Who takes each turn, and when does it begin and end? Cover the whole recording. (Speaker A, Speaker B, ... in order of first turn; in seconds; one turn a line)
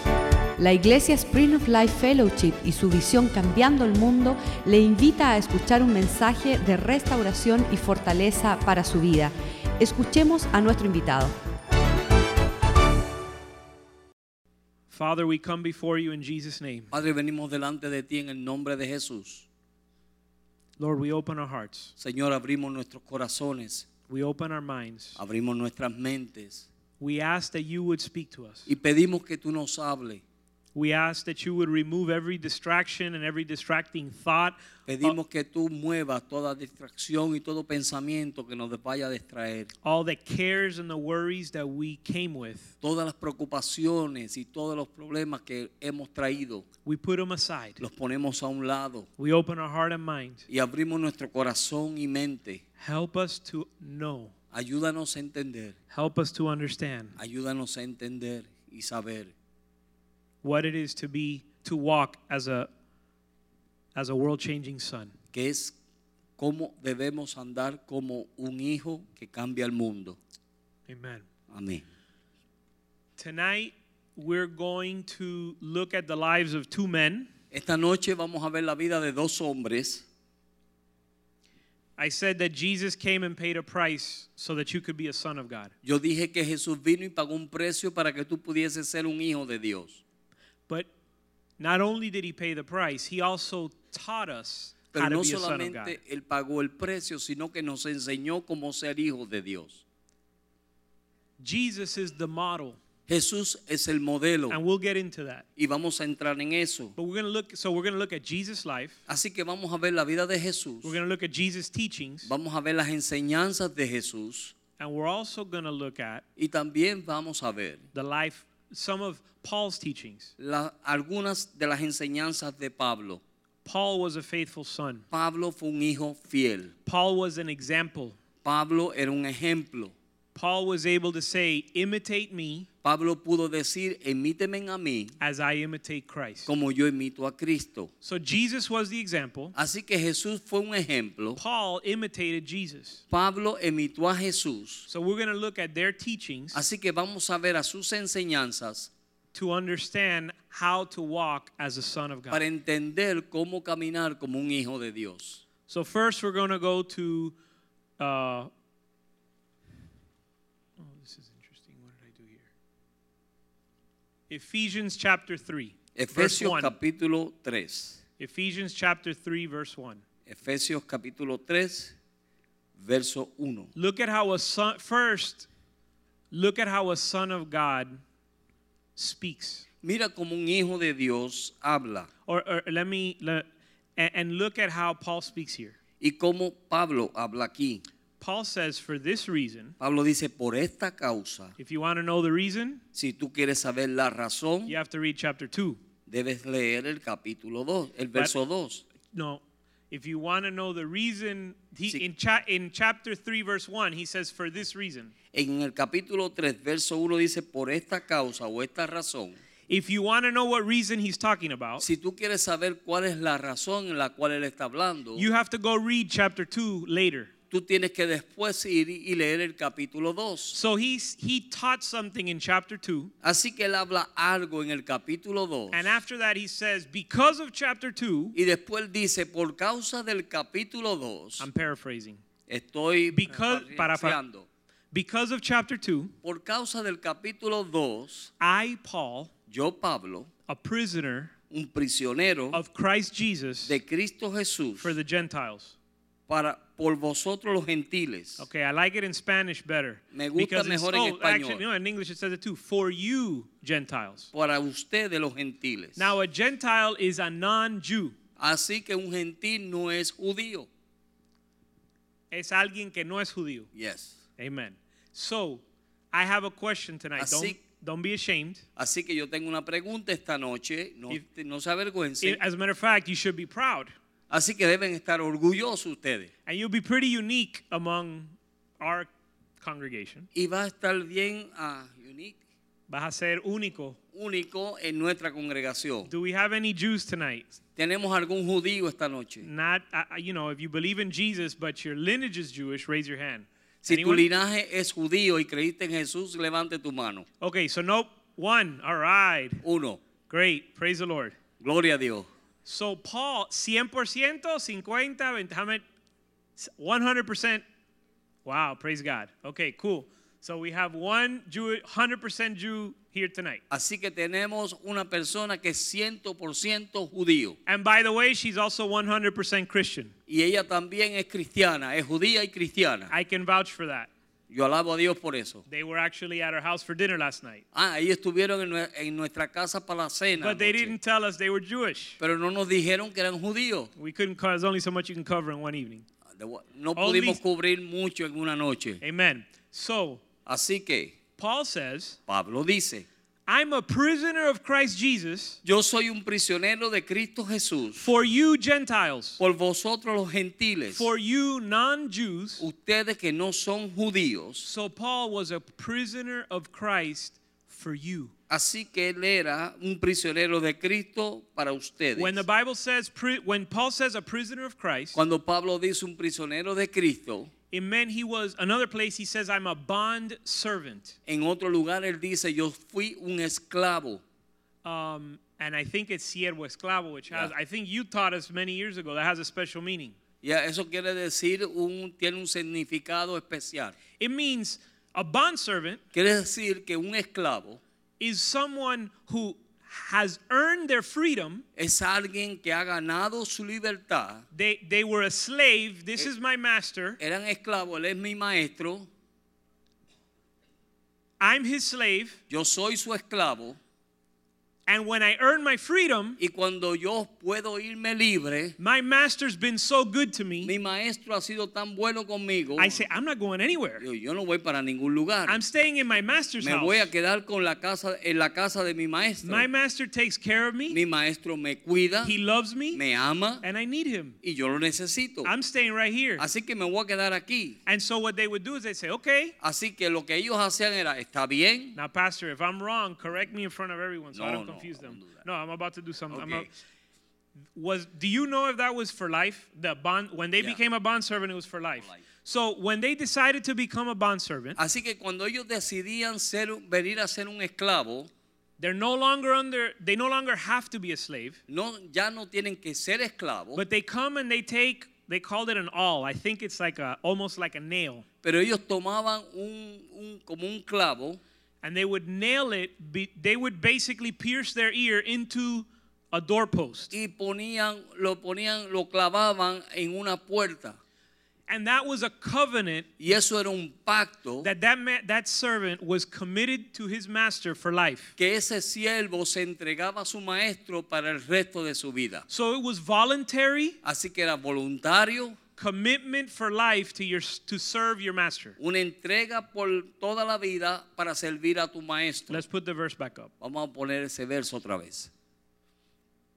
Speaker A: 0.6-11.3
Speaker B: 14.9-16.9
Speaker C: 16.9-19.4
Speaker B: 20.8-21.9
Speaker C: 22.0-23.9
Speaker B: 24.1-25.2
Speaker C: 25.2-26.6
Speaker B: 27.0-28.7
Speaker C: 28.7-30.2
Speaker B: 30.7-35.1
Speaker C: 34.9-39.7
Speaker B: 39.8-42.7
Speaker C: 42.8-46.6
Speaker B: 46.8-47.8
Speaker C: 47.8-49.1
Speaker B: 49.2-50.5
Speaker C: 50.5-52.6
Speaker B: 52.8-54.3
Speaker C: 54.5-55.7
Speaker B: 55.9-57.2
Speaker C: 57.2-59.3
Speaker B: 60.4-62.7
Speaker B: 63.9-65.1
Speaker C: 65.3-65.7
Speaker C: 66.4-70.2
Speaker B: 70.9-71.2
Speaker C: 71.5-71.8
Speaker B: 73.2-77.3
Speaker C: 77.5-80.0
Speaker B: 82.0-85.7
Speaker C: 85.8-90.0
Speaker B: 91.6-96.0
Speaker C: 94.9-99.8
Speaker B: 101.4-102.8
Speaker C: 103.1-104.6
Speaker B: 104.5-105.5
Speaker C: 105.6-106.9
Speaker B: 107.0-109.0
Speaker C: 109.1-111.0
Speaker B: 110.8-112.3
Speaker C: 112.2-114.5
Speaker B: 114.8-116.2
Speaker C: 116.4-117.9
Speaker B: 117.9-120.3
Speaker C: 120.4-123.2
Speaker B: 123.6-125.0
Speaker C: 125.1-126.7
Speaker B: 126.8-128.2
Speaker C: 128.4-129.9
Speaker B: 130.3-132.7
Speaker C: 132.8-135.2
Speaker B: 135.2-136.5
Speaker C: 136.5-137.9
Speaker B: 138.0-139.5
Speaker C: 139.5-141.4
Speaker B: 141.4-143.0
Speaker C: 143.1-144.9
Speaker B: 144.9-146.6
Speaker C: 146.5-148.9
Speaker B: 149.3-152.4
Speaker C: 152.3-155.4
Speaker B: 155.7-157.3
Speaker B: 158.0-158.5
Speaker B: 160.8-162.5
Speaker B: 164.3-166.7
Speaker C: 165.9-168.0
Speaker B: 168.2-170.0
Speaker C: 170.2-171.9
Speaker C: 172.8-173.7
Speaker B: 173.7-175.5
Speaker B: 176.3-178.0
Speaker B: 178.9-179.7
Speaker C: 179.8-182.1
Speaker B: 182.3-185.8
Speaker C: 186.0-187.8
Speaker B: 188.2-189.8
Speaker C: 189.8-191.5
Speaker B: 191.6-192.8
Speaker C: 192.9-194.7
Speaker B: 194.7-195.8
Speaker C: 196.1-198.8
Speaker B: 199.1-205.1
Speaker C: 205.3-209.4
Speaker B: 209.7-211.8
Speaker C: 211.8-215.3
Speaker B: 215.2-217.3
Speaker C: 217.5-220.6
Speaker B: 220.5-223.1
Speaker C: 223.2-225.9
Speaker B: 225.7-228.3
Speaker C: 228.3-231.4
Speaker B: 231.4-232.2
Speaker C: 232.5-234.5
Speaker B: 233.1-234.2
Speaker B: 234.9-236.1
Speaker C: 236.2-238.3
Speaker B: 238.4-239.3
Speaker C: 239.5-240.3
Speaker B: 240.5-241.3
Speaker C: 241.5-242.6
Speaker B: 242.5-243.8
Speaker C: 243.7-244.9
Speaker B: 244.8-245.7
Speaker C: 246.3-248.4
Speaker B: 248.4-254.3
Speaker C: 250.1-251.6
Speaker C: 254.3-256.1
Speaker B: 256.0-258.1
Speaker C: 258.4-260.7
Speaker B: 262.3-263.7
Speaker C: 263.7-264.1
Speaker B: 264.4-268.6
Speaker C: 267.2-267.6
Speaker C: 268.8-272.4
Speaker B: 272.2-273.9
Speaker C: 274.3-276.3
Speaker B: 276.4-279.1
Speaker B: 279.6-280.3
Speaker C: 280.3-282.4
Speaker B: 282.9-284.0
Speaker C: 284.1-286.1
Speaker B: 286.1-287.5
Speaker C: 287.8-289.5
Speaker B: 289.4-294.3
Speaker C: 293.8-297.2
Speaker B: 297.4-299.6
Speaker C: 299.6-300.0
Speaker B: 300.3-301.4
Speaker C: 301.6-302.3
Speaker B: 302.6-305.8
Speaker B: 306.6-307.6
Speaker B: 308.4-313.6
Speaker C: 313.7-317.6
Speaker B: 317.6-320.1
Speaker C: 320.3-323.1
Speaker B: 323.1-324.1
Speaker C: 324.5-325.6
Speaker B: 325.7-327.6
Speaker C: 327.7-330.9
Speaker B: 330.4-332.2
Speaker C: 332.2-333.9
Speaker B: 334.0-336.0
Speaker C: 336.3-339.0
Speaker B: 336.9-337.4
Speaker B: 339.0-340.2
Speaker C: 340.4-341.1
Speaker B: 341.4-342.2
Speaker C: 342.3-343.1
Speaker B: 343.5-345.6
Speaker C: 345.6-348.1
Speaker B: 348.0-349.4
Speaker C: 349.4-351.1
Speaker B: 350.9-352.6
Speaker C: 352.6-354.7
Speaker B: 354.6-358.3
Speaker C: 358.5-362.4
Speaker B: 362.1-365.2
Speaker C: 365.1-367.5
Speaker B: 367.7-371.2
Speaker C: 371.3-374.2
Speaker B: 374.8-380.2
Speaker C: 380.4-384.0
Speaker B: 384.2-386.0
Speaker C: 386.1-387.8
Speaker B: 388.2-391.6
Speaker C: 391.8-394.4
Speaker B: 394.5-397.2
Speaker C: 397.2-399.1
Speaker B: 401.4-402.4
Speaker C: 402.5-403.8
Speaker B: 404.9-406.4
Speaker C: 406.4-408.8
Speaker B: 408.8-410.7
Speaker C: 410.6-413.0
Speaker B: 412.8-414.1
Speaker C: 414.0-415.6
Speaker B: 415.5-417.1
Speaker C: 416.6-419.7
Speaker B: 419.4-421.0
Speaker C: 420.9-422.3
Speaker B: 422.2-423.0
Speaker C: 422.9-423.6
Speaker B: 423.6-424.4
Speaker C: 424.4-425.5
Speaker B: 425.4-426.4
Speaker C: 426.4-427.8
Speaker B: 427.9-429.5
Speaker C: 429.6-432.0
Speaker B: 431.9-436.7
Speaker C: 434.3-435.4
Speaker C: 436.3-436.7
Speaker B: 437.7-444.8
Speaker C: 444.8-448.3
Speaker B: 448.8-451.6
Speaker C: 451.7-453.8
Speaker B: 453.7-458.2
Speaker C: 458.4-461.4
Speaker B: 461.8-467.1
Speaker C: 467.1-471.0
Speaker B: 471.7-473.1
Speaker C: 473.2-474.7
Speaker B: 474.6-478.3
Speaker C: 478.4-482.4
Speaker B: 482.5-484.0
Speaker C: 484.0-485.6
Speaker B: 485.8-488.8
Speaker C: 488.8-492.6
Speaker B: 492.5-493.5
Speaker C: 493.6-495.3